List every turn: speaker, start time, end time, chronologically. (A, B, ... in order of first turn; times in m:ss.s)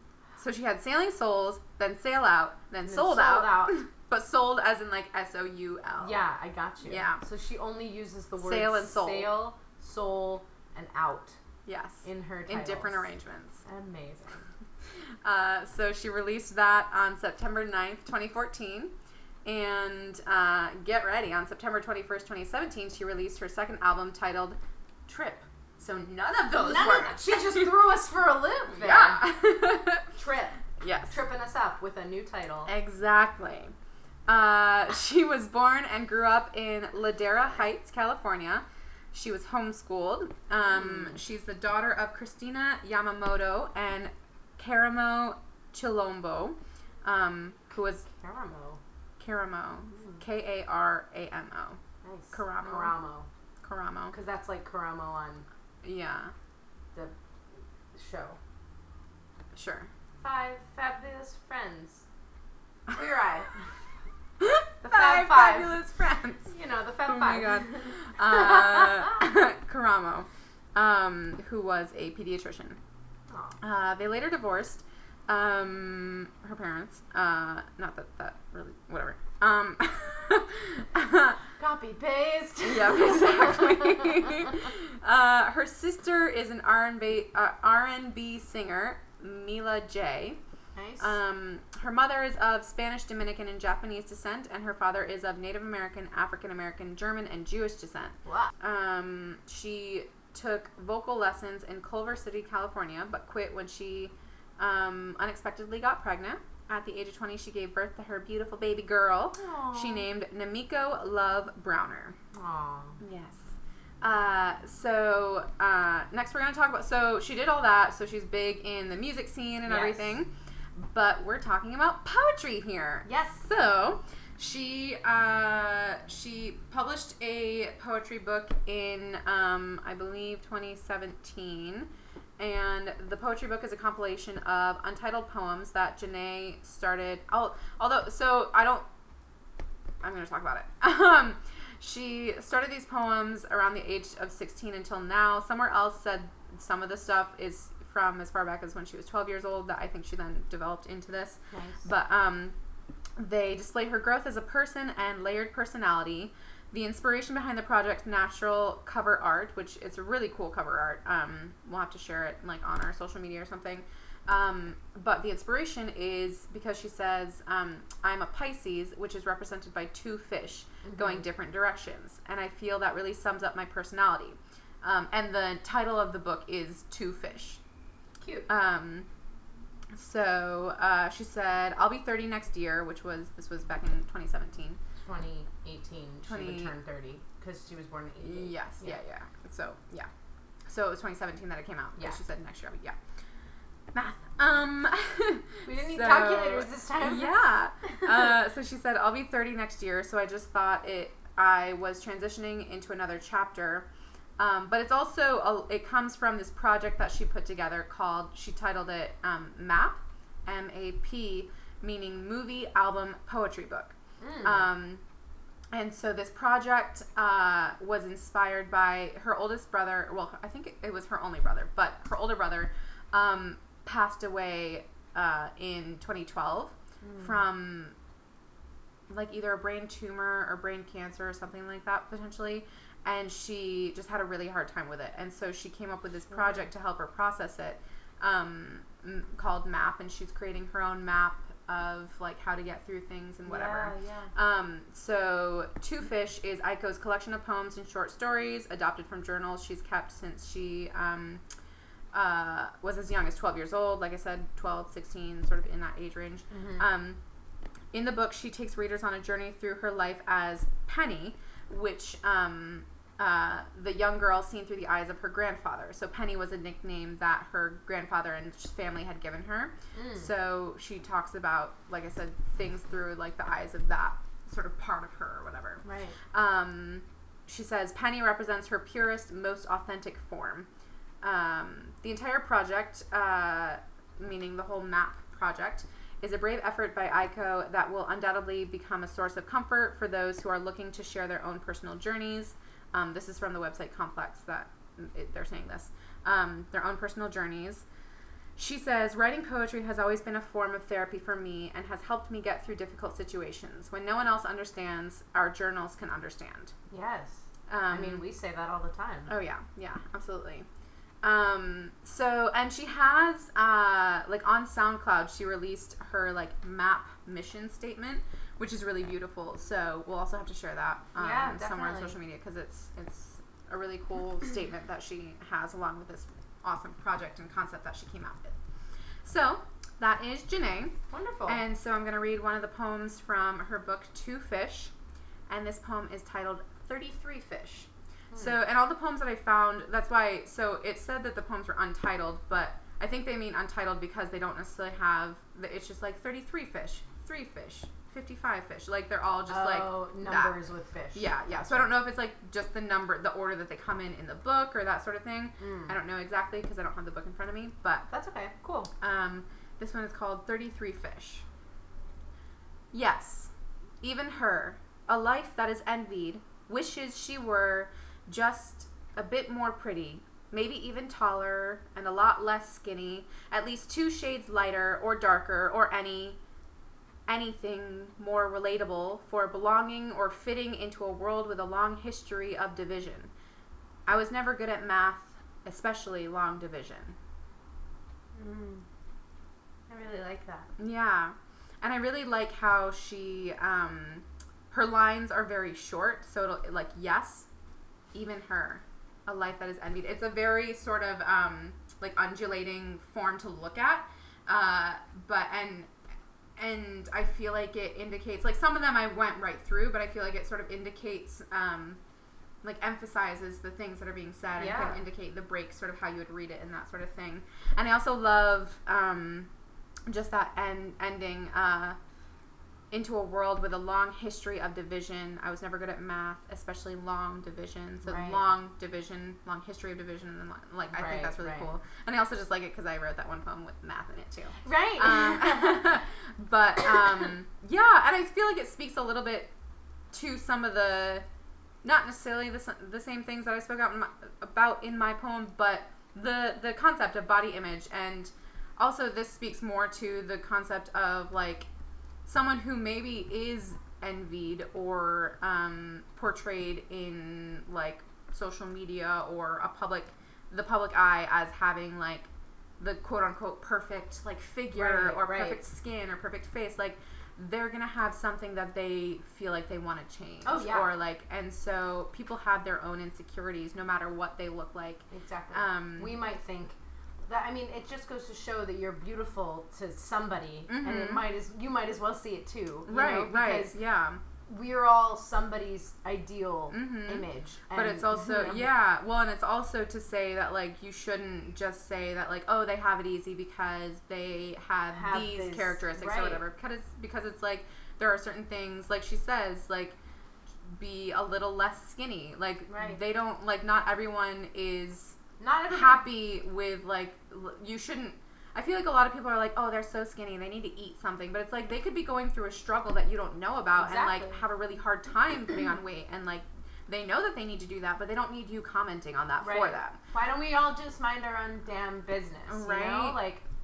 0:00.4-0:06.2 A
0:02.8-0:03.8 B
0:06.0-0:11.4 B
0:06.8-0:07.2 A
0:08.4-0:09.4 A
0:11.7-0:13.6 A
0:12.0-0:13.1 B
0:13.6-0:14.5 B
0:15.2-0:18.9 A
0:19.4-0:27.6 A
0:26.5-0:29.3 B
0:28.8-0:30.1 A
0:30.2-0:32.7 B
0:30.8-0:31.2 A
0:32.7-0:33.7 A
0:34.3-0:48.1 A
0:48.0-0:48.8 B
0:49.2-0:51.8 A
0:52.0-0:53.3 B
0:52.3-0:52.9 A
0:53.6-0:54.1 A
0:54.1-0:55.5 B
0:55.8-0:56.3 A
0:57.9-0:58.4 B
0:59.5-0:59.9 A
1:00.2-1:02.0 B
1:02.9-1:03.6 B
1:04.4-1:06.5 A
1:04.8-1:05.8 B
1:06.5-1:08.9 B
1:07.1-1:12.8 A
1:13.3-1:13.6 B
1:13.6-1:21.4 A
1:21.6-1:24.4 B
1:22.6-1:30.4 A
1:30.8-1:31.2 B
1:31.0-1:52.2 A
1:38.2-1:38.5 B
1:49.4-1:50.1 B
1:52.3-1:53.0 B
1:53.0-2:18.8 A
1:59.6-2:00.2 B
2:03.0-2:03.4 B
2:20.0-2:32.6 A
2:31.5-2:31.8 B
2:33.2-2:57.6 A
2:50.8-2:51.3 B
2:58.2-2:58.5 B
2:58.5-2:59.1 A
2:59.9-3:04.8 A
3:05.0-3:09.0 B
3:06.3-3:06.8 A
3:08.2-3:10.1 A
3:10.7-3:13.0 A
3:13.9-3:23.9 A
3:15.7-3:17.4 B
3:24.4-3:35.0 A
3:34.2-3:34.7 B
3:35.7-3:48.0 A
3:47.0-3:47.4 B
3:49.1-4:11.4 A
3:56.4-3:56.6 B
4:03.4-4:04.3 B
4:12.1-4:17.2 A
4:16.5-4:16.8 B
4:17.9-4:40.7 A
4:29.9-4:30.3 B
4:35.8-4:36.2 B
4:41.2-4:57.8 A
4:58.6-5:06.7 A
5:06.9-5:09.3 B
5:07.7-5:08.2 A
5:09.3-5:10.7 A
5:11.2-5:28.6 A
5:21.2-5:22.2 B
5:29.2-5:31.0 A
5:31.1-5:31.6 B
5:31.5-5:34.9 A
5:35.5-5:50.6 A
5:49.5-5:51.9 B
5:51.1-5:58.1 A
5:55.6-5:55.9 B
5:58.1-5:58.9 B
5:59.0-6:01.5 A
6:02.9-6:16.4 A
6:17.3-6:23.3 A
6:24.1-6:27.2 A
6:28.4-6:28.8 B
6:29.9-6:30.7 B
6:30.8-6:37.5 A
6:38.1-6:45.9 A
6:46.6-6:52.0 A
6:52.6-6:59.5 A
6:54.6-6:55.0 B
7:00.1-7:02.0 A
7:02.9-7:19.5 A
7:08.0-7:08.4 B
7:10.9-7:11.7 B
7:14.6-7:16.0 B
7:20.1-7:21.2 A
7:21.8-7:31.7 A
7:32.2-7:42.3 A
7:42.8-7:56.2 A
7:44.7-7:45.6 B
7:50.4-7:50.9 B
7:55.1-8:03.8 B
8:00.7-8:01.4 A
8:02.9-8:04.2 A
8:04.5-8:08.7 B
8:06.7-8:20.0 A
8:14.9-8:16.4 B
8:20.7-8:25.2 A
8:22.7-8:23.0 B
8:25.4-8:26.1 B
8:25.7-8:40.0 A
8:33.8-8:34.4 B
8:39.4-8:43.4 B
8:42.5-8:43.2 A